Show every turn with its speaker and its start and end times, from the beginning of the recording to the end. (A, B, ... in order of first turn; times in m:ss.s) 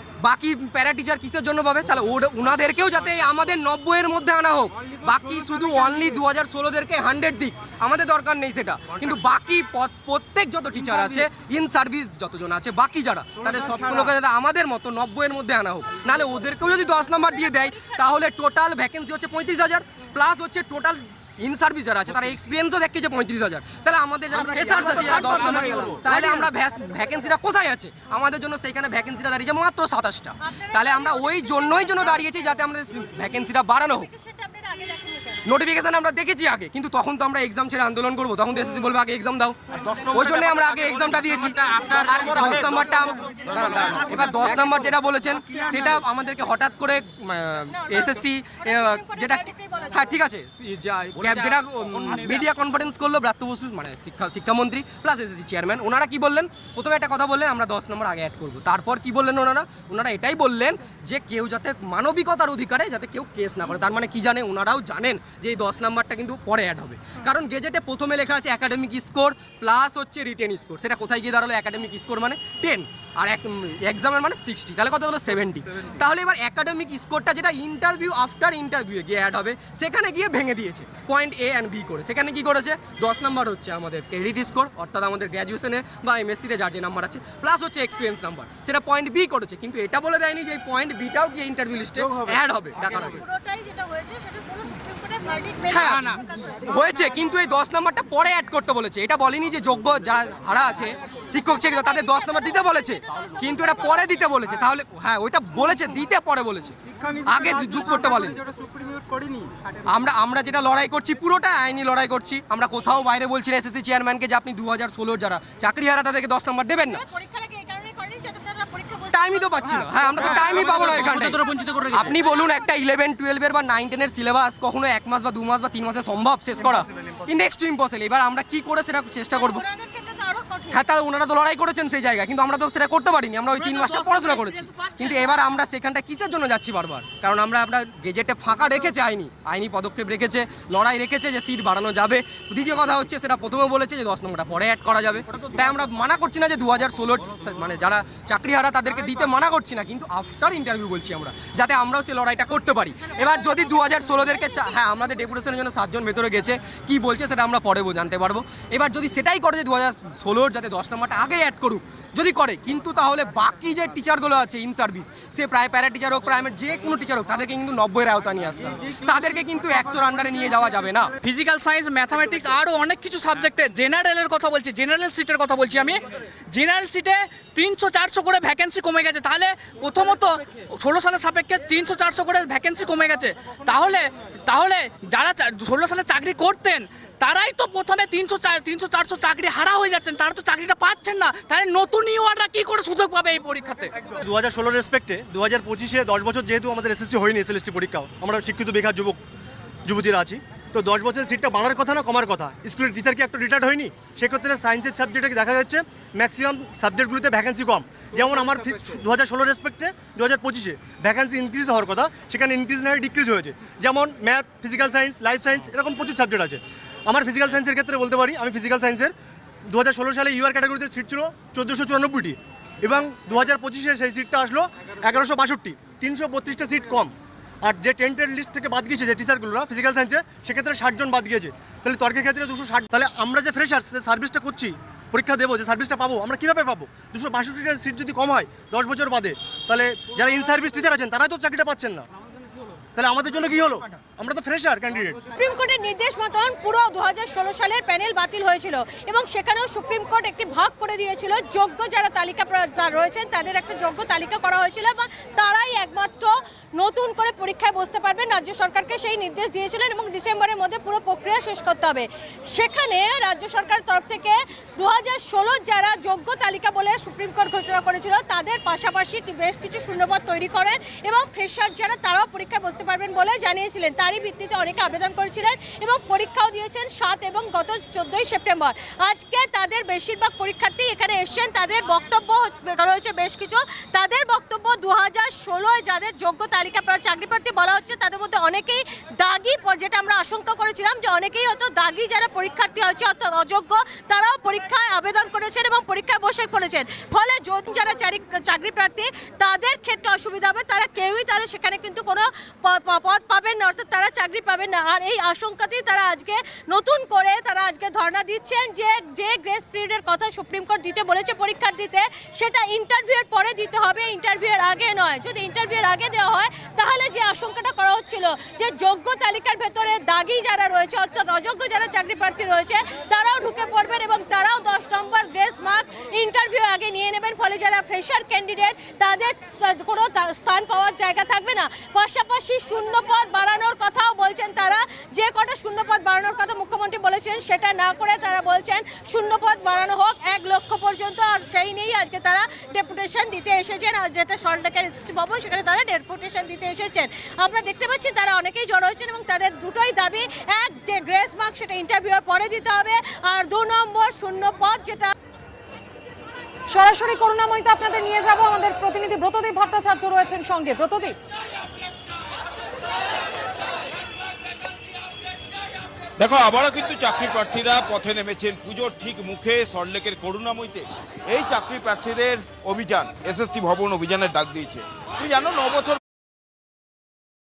0:00.2-0:34.1 A
0:17.1-0:18.2 B
0:24.9-0:25.9 B
0:30.4-0:32.4 B
0:33.9-0:35.5 B
0:35.4-1:33.2 A
0:47.7-0:50.2 B
1:32.9-1:36.7 B
1:35.7-1:48.4 A
1:41.6-1:44.2 B
1:49.9-1:57.0 A
1:56.8-2:01.2 B
1:59.1-2:09.6 A
2:09.3-2:10.8 B
2:10.7-2:51.1 A
2:13.6-2:15.0 C
2:33.0-2:34.8 B
2:51.2-2:56.0 C
2:56.5-3:13.9 C
3:14.1-3:19.2 D
3:19.8-3:39.1 D
3:39.6-4:02.1 D
4:03.0-4:05.2 D
4:05.4-5:55.1 B
5:56.7-6:01.2 E
6:06.2-6:16.0 F